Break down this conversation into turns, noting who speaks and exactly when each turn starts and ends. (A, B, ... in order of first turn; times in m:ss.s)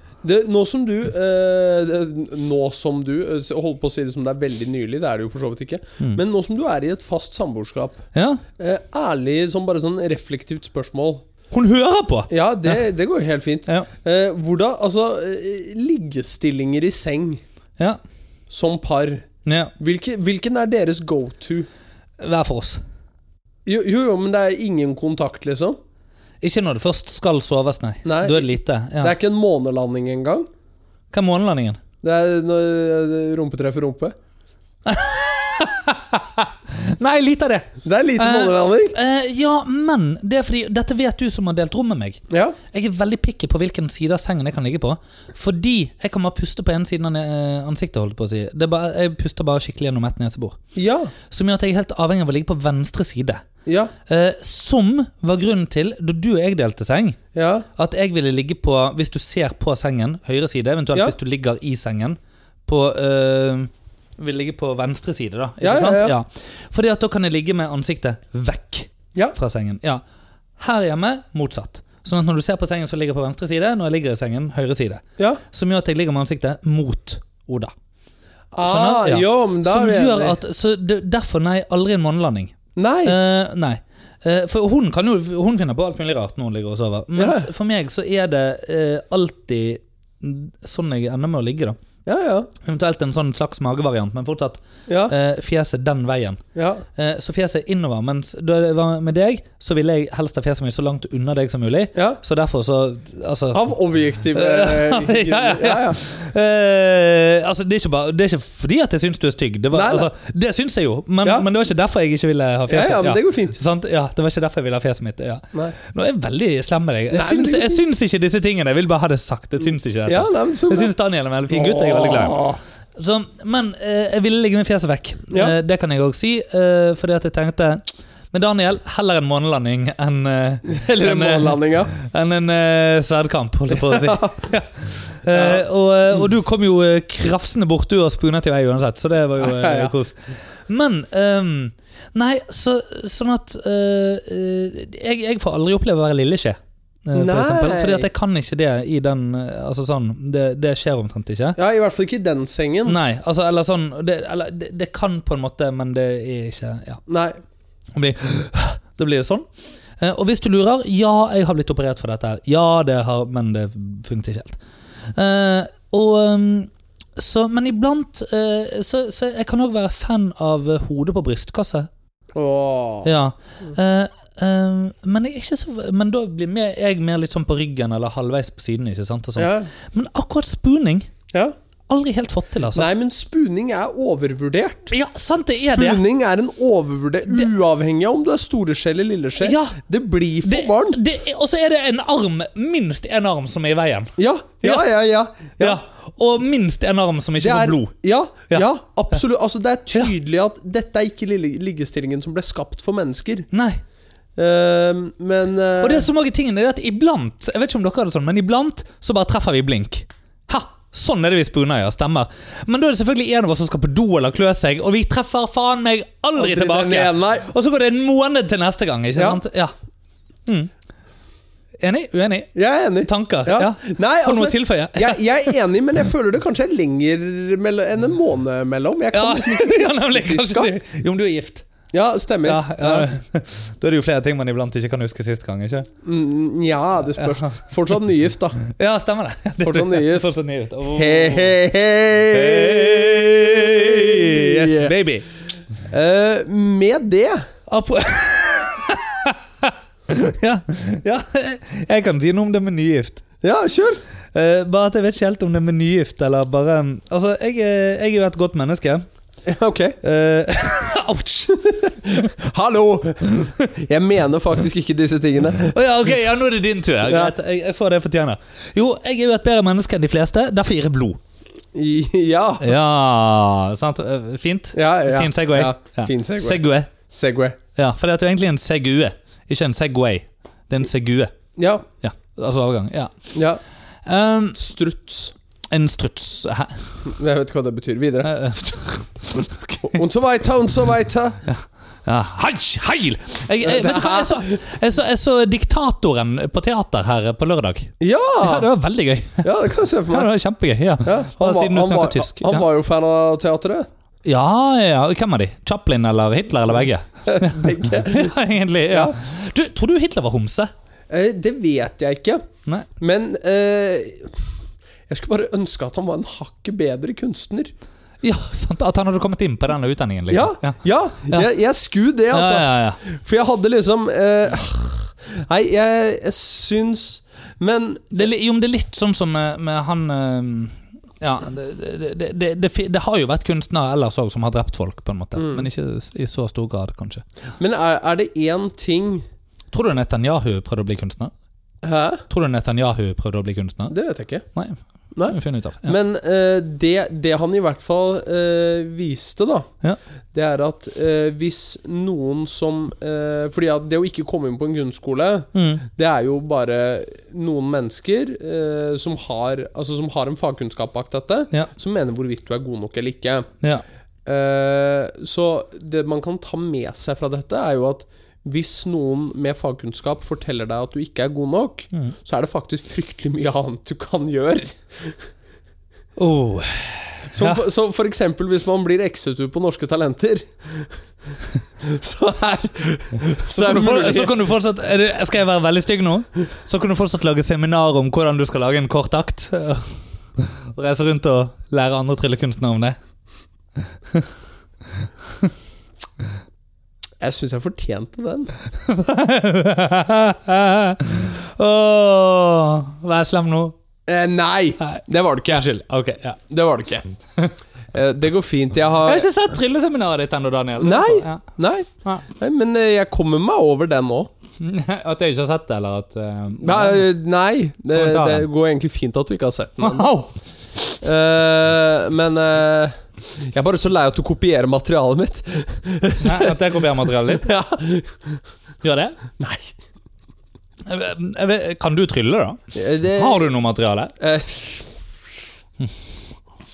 0:00.2-0:08.0 A
0:08.1-0:08.4 B
0:08.6-0:11.2 A
0:11.5-0:12.8 B
0:12.3-0:17.4 A
0:18.5-0:19.3 A
0:19.4-0:19.7 B
0:19.8-0:21.7 A
0:22.2-0:22.8 B
0:23.6-0:25.8 A
0:26.4-0:29.1 B
0:28.0-0:30.5 A
0:31.1-0:31.8 B
0:32.0-0:34.1 A
0:34.8-0:50.6 B
0:37.8-0:39.0 A
0:42.3-0:42.6 A
0:50.7-0:51.1 A
0:51.3-0:53.4 B
0:53.6-0:53.9 A
0:54.1-0:57.2 B
0:57.3-0:57.7 A
0:57.8-1:10.0 B
1:05.6-1:06.1 A
1:10.6-1:17.7 B
1:18.5-1:20.4 A
1:18.6-1:31.8 B
1:22.8-1:23.2 A
1:27.2-1:27.5 A
1:32.0-1:32.5 A
1:32.6-1:36.4 B
1:34.9-1:35.1 A
1:36.5-1:36.8 A
1:37.0-1:43.7 B
1:41.9-1:42.2 A
1:43.5-1:46.0 A
1:44.3-2:31.6 B
1:49.7-1:50.1 A
1:52.7-1:53.6 A
1:57.1-1:57.8 A
2:00.0-2:00.9 A
2:01.5-2:02.6 A
2:10.6-2:11.9 A
2:13.7-2:14.5 A
2:15.3-2:15.6 A
2:19.4-2:19.9 A
2:27.1-2:28.1 A
2:31.6-2:33.0 A
2:32.8-2:37.0 B
2:37.1-2:37.4 A
2:37.9-2:39.4 B
2:40.0-2:44.6 B
2:45.1-2:51.9 B
2:52.3-2:53.1 A
2:53.0-3:01.1 B
2:59.4-2:59.7 A
3:01.9-3:02.9 B
3:02.7-3:04.9 A
3:04.9-3:06.0 B
3:05.5-3:11.0 A
3:09.4-3:09.8 B
3:10.4-3:14.1 B
3:14.2-3:15.8 A
3:15.6-3:17.9 B
3:17.4-3:23.5 A
3:23.5-3:23.8 B
3:24.4-3:26.1 A
3:25.8-3:39.7 B
3:36.4-3:37.5 A
3:39.1-3:39.4 A
3:40.4-3:40.7 B
3:41.8-3:45.5 B
3:42.5-3:50.7 A
3:49.1-3:51.6 B
3:51.9-3:53.1 A
3:52.4-3:55.9 B
3:56.0-3:58.6 A
3:58.6-4:01.6 B
3:59.6-4:00.3 A
4:00.9-4:04.9 A
4:02.3-4:05.2 B
4:05.9-4:07.4 A
4:07.7-4:13.2 B
4:13.4-4:14.0 A
4:14.3-4:19.0 B
4:19.4-4:20.0 A
4:20.0-4:22.2 B
4:21.6-4:25.8 A
4:25.6-4:31.2 B
4:27.0-4:27.3 A
4:31.7-4:32.7 A
4:32.6-4:36.9 B
4:34.7-4:37.6 A
4:37.8-4:41.3 B
4:41.6-4:41.8 A
4:42.0-4:43.1 B
4:43.3-4:43.6 A
4:44.0-4:44.6 B
4:44.5-4:45.3 A
4:45.7-4:46.8 B
4:47.0-4:48.4 A
4:48.2-4:50.0 B
4:49.8-4:51.4 A
4:51.4-5:02.7 B
4:53.6-4:54.7 A
4:58.0-4:58.7 A
4:59.4-5:00.3 A
5:01.0-5:03.9 A
5:04.2-5:10.7 B
5:07.2-5:08.4 A
5:08.9-5:09.2 A
5:11.1-5:12.4 A
5:13.0-5:14.4 A
5:15.1-5:17.7 A
5:18.2-5:21.5 B
5:20.3-5:28.2 A
5:22.3-5:23.0 B
5:28.1-5:37.2 B
5:35.4-5:35.6 A
5:37.6-5:39.2 A
5:39.7-5:41.3 B
5:41.8-5:42.2 A
5:42.3-5:43.9 B
5:43.9-5:44.4 A
5:44.5-5:45.9 B
5:45.1-5:49.7 A
5:50.3-6:03.5 A
5:55.5-5:55.8 B
6:04.2-6:15.2 A
6:16.2-6:17.6 B
6:17.3-6:21.0 A
6:21.8-6:24.4 A
6:23.5-6:33.0 B
6:34.9-6:35.5 B
6:37.2-6:38.5 A
6:38.7-6:43.8 B
6:44.1-6:47.1 A
6:45.9-6:46.3 B
6:47.9-6:49.3 A
6:49.0-6:51.4 B
6:50.8-6:54.3 A
6:54.6-6:57.1 B
6:56.6-7:00.1 A
6:57.9-6:58.5 B
6:59.8-7:00.3 B
7:00.8-7:08.4 A
7:06.2-7:07.5 B
7:08.8-7:09.2 B
7:09.4-7:09.8 A
7:10.8-7:12.6 B
7:12.7-7:13.5 A
7:13.1-7:14.1 B
7:14.2-7:15.1 A